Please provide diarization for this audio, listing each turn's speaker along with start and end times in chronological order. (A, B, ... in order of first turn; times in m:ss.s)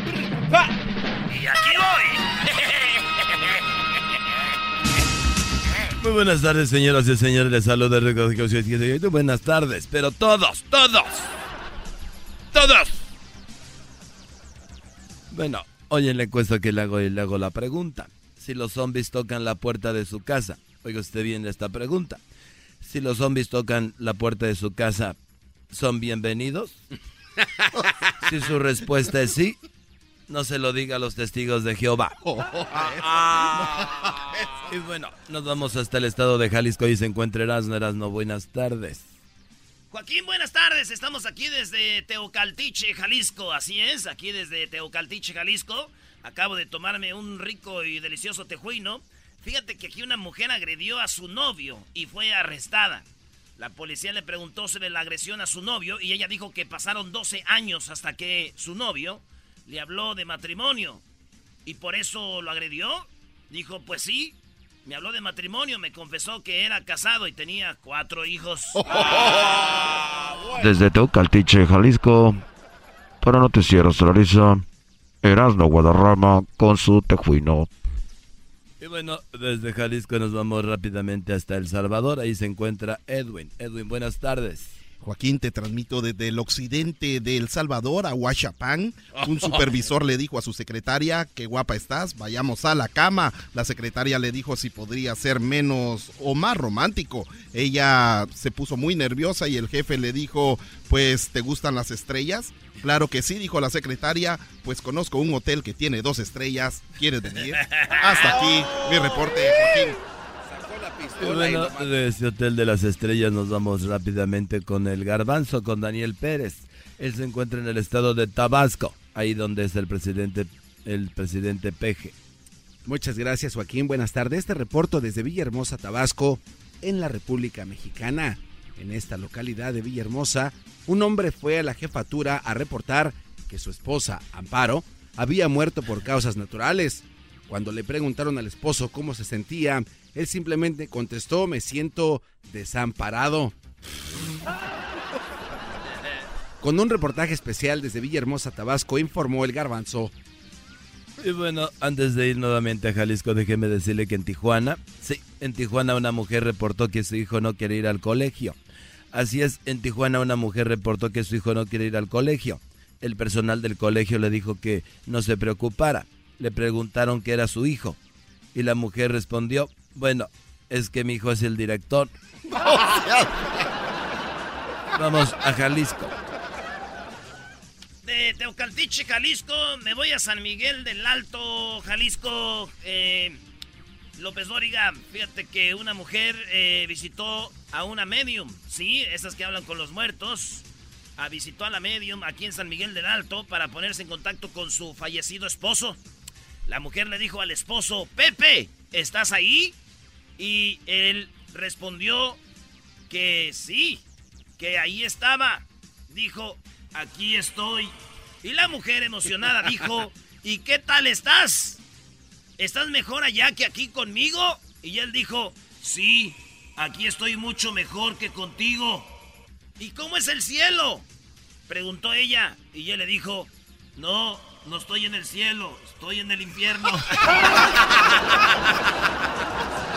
0:01.3-0:03.0 A
0:06.0-0:11.3 B
0:12.5-0:13.0 B
0:15.3-0:22.2 B
0:22.8-0:25.2 B
0:25.7-0:26.8 B
0:28.2-0:29.6 B
0:30.3-0:32.2 B
0:32.7-0:33.9 C
0:34.6-0:39.1 B
0:39.9-0:53.0 A
0:53.6-1:01.0 A
1:01.6-1:08.9 A
1:09.2-1:09.8 C
1:10.5-1:12.4 D
1:13.2-1:14.6 D
1:15.2-1:17.7 D
1:18.8-1:24.7 B
1:25.0-1:50.0 E
1:48.1-1:49.3 C
1:50.4-1:51.9 C
1:51.2-2:02.2 B
2:02.8-2:23.6 C
2:26.6-2:30.1 C
2:31.2-2:38.6 B
2:39.1-2:48.0 B
2:48.5-2:52.1 B
2:52.5-2:53.5 E
2:54.9-2:56.1 B
2:58.0-3:03.4 A
3:04.2-3:10.7 A
3:11.2-3:16.0 A
3:16.7-3:19.8 A
3:20.4-3:22.4 A
3:23.1-3:24.0 A
3:24.6-3:31.8 A
3:32.6-3:39.2 A
3:39.8-3:41.1 A
3:41.7-3:47.3 A